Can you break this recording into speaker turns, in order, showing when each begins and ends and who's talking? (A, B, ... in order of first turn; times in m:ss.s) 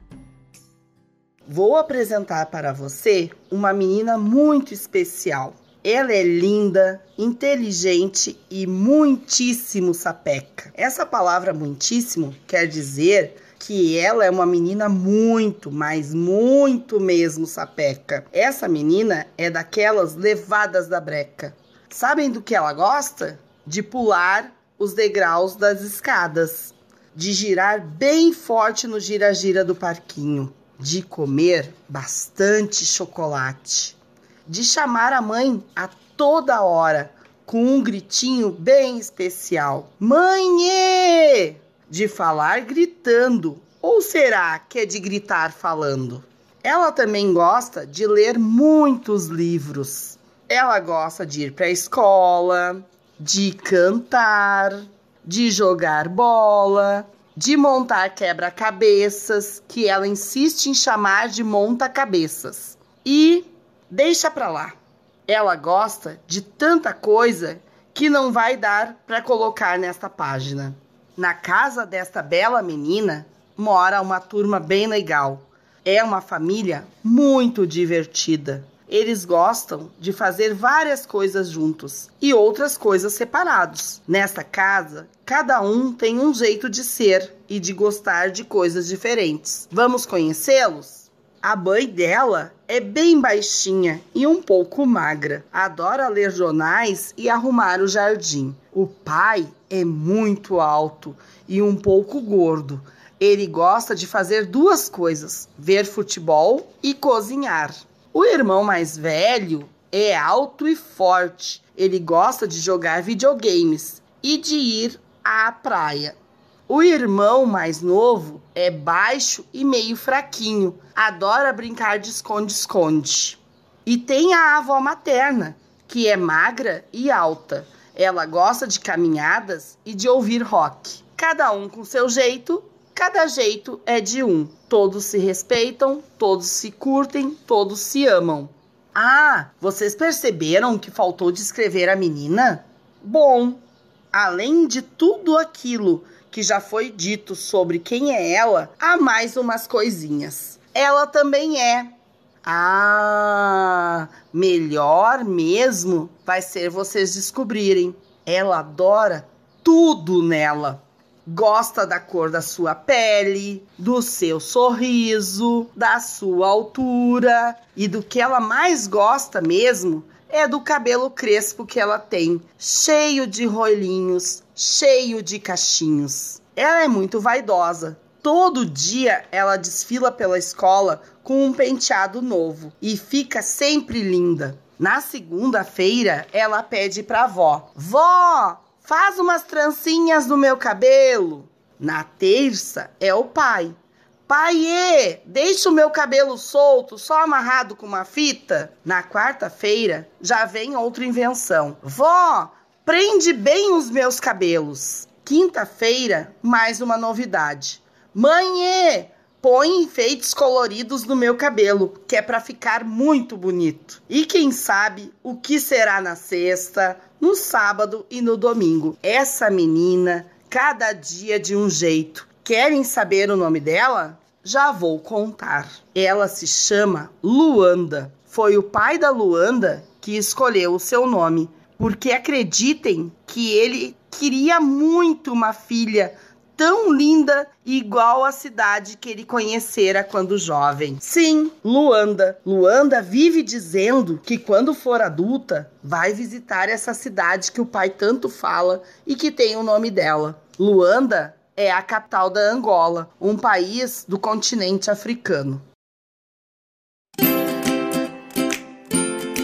0:01.4-1:04.7 A
1:05.3-1:56.2 A
1:56.7-3:13.8 A
3:14.3-4:15.6 A